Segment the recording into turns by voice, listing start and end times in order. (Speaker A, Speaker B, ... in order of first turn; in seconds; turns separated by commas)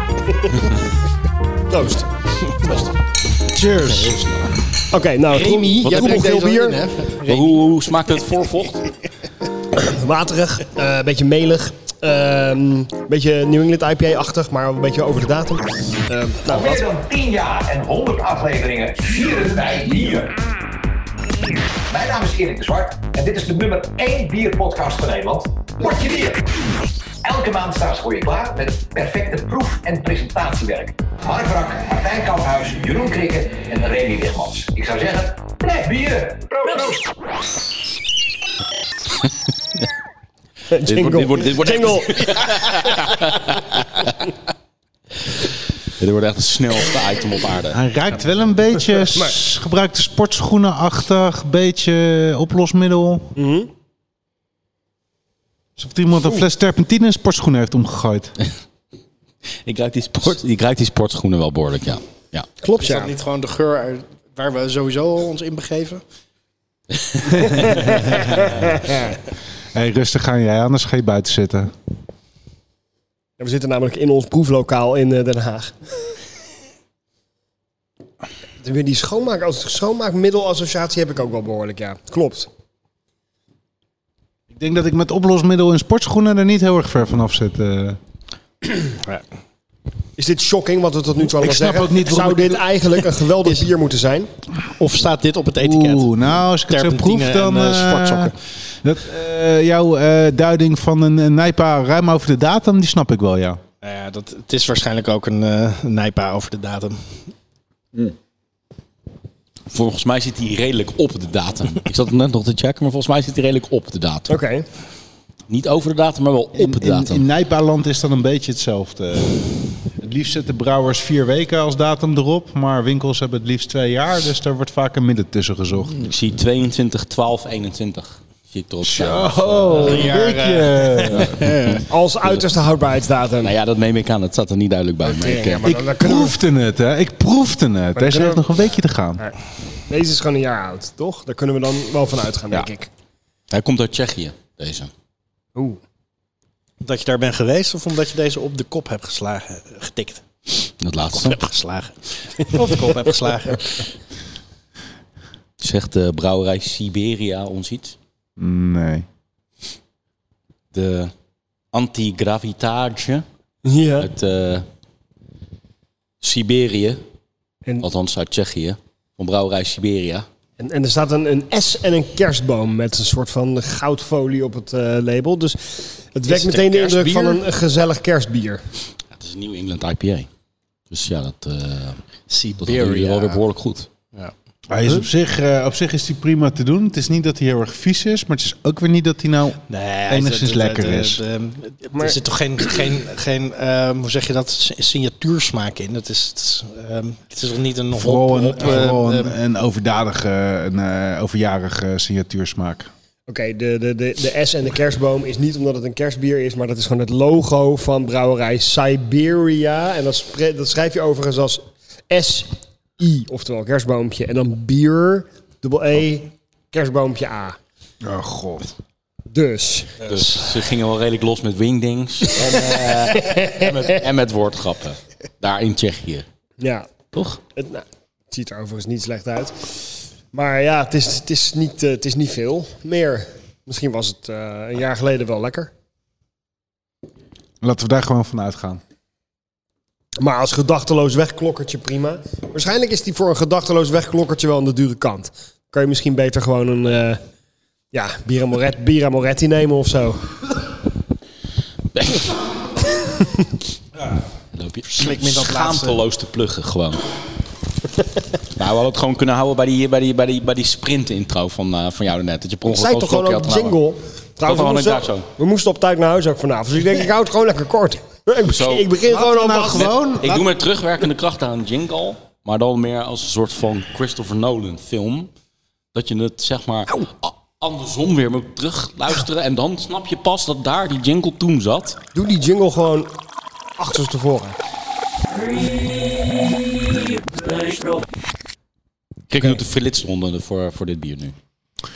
Speaker A: 1.7-2.9, Speaker B: 3.5-4.5, Speaker C: 3.9-4.3, Speaker A: 4.9-6.8, Speaker D: 5.3-7.7, Speaker C: 5.8-6.2, Speaker C: 7.3-8.8, Speaker A: 9.7-16.8, Speaker E: 16.4-20.4, Speaker E: 21.9-26.5, Speaker E: 27.2-37.1, Speaker A: 40.7-42.3, Speaker C: 40.8-44.1, Speaker C: 46.0-47.8, Speaker B: 47.7-53.4, Speaker A: 53.4-53.7, Speaker B: 55.8-58.3, Speaker C: 59.6-62.5, Speaker A: 62.6-63.1, Speaker D: 62.8-66.0, Speaker A: 67.4-69.2, Speaker B: 69.7-71.7, Speaker A: 73.4-75.8, Speaker A: 78.6-82.5, Speaker B: 84.5-88.0, Speaker A: 90.2-94.3, Speaker B: 91.2-92.6, Speaker D: 93.4-93.7, Speaker D: 94.8-96.1, Speaker B: 95.6-103.6, Speaker D: 96.7-98.4, Speaker D: 103.8-107.2, Speaker C: 109.7-114.4, Speaker A: 114.3-114.7, Speaker C: 115.5-117.2, Speaker B: 116.6-126.1, Speaker C: 126.0-130.1, Speaker B: 128.8-131.4, Speaker D: 129.8-131.8, Speaker C: 131.1-132.4, Speaker A: 131.9-133.5, Speaker C: 133.4-135.7, Speaker A: 135.0-136.4, Speaker B: 135.6-139.2, Speaker A: 138.0-142.9, Speaker C: 143.5-144.9, Speaker D: 146.8-153.9, Speaker C: 150.8-151.4, Speaker A: 152.7-152.9, Speaker C: 155.6-158.0, Speaker B: 158.4-159.1, Speaker C: 160.7-161.1, Speaker C: 161.7-163.3, Speaker A: 163.7-164.1, Speaker C: 164.0-164.7, Speaker C: 166.2-167.0, Speaker C: 167.8-170.3, Speaker A: 170.6-178.6, Speaker C: 176.3-176.8, Speaker D: 176.5-177.4, Speaker C: 179.1-180.3, Speaker C: 180.9-182.0, Speaker D: 182.3-183.4, Speaker C: 182.6-183.9, Speaker B: 184.7-191.2, Speaker D: 189.7-199.4, Speaker B: 197.9-202.9, Speaker A: 203.3-217.6, Speaker B: 218.0-218.7, Speaker A: 219.3-220.2, Speaker C: 220.0-226.2, Speaker A: 222.4-223.7, Speaker A: 226.6-226.9, Speaker C: 227.1-227.4, Speaker A: 227.6-235.7, Speaker B: 237.6-238.8, Speaker A: 240.2-247.2, Speaker A: 247.9-250.3, Speaker C: 251.9-252.2, Speaker A: 253.2-253.4, Speaker C: 254.5-257.0, Speaker D: 254.9-256.0, Speaker C: 258.6-263.8, Speaker A: 262.7-269.9, Speaker C: 264.4-265.3, Speaker C: 268.5-268.9, Speaker B: 269.1-270.5, Speaker C: 269.7-275.3, Speaker C: 275.9-282.0, Speaker A: 282.1-283.2, Speaker A: 283.8-284.6, Speaker C: 289.3-291.4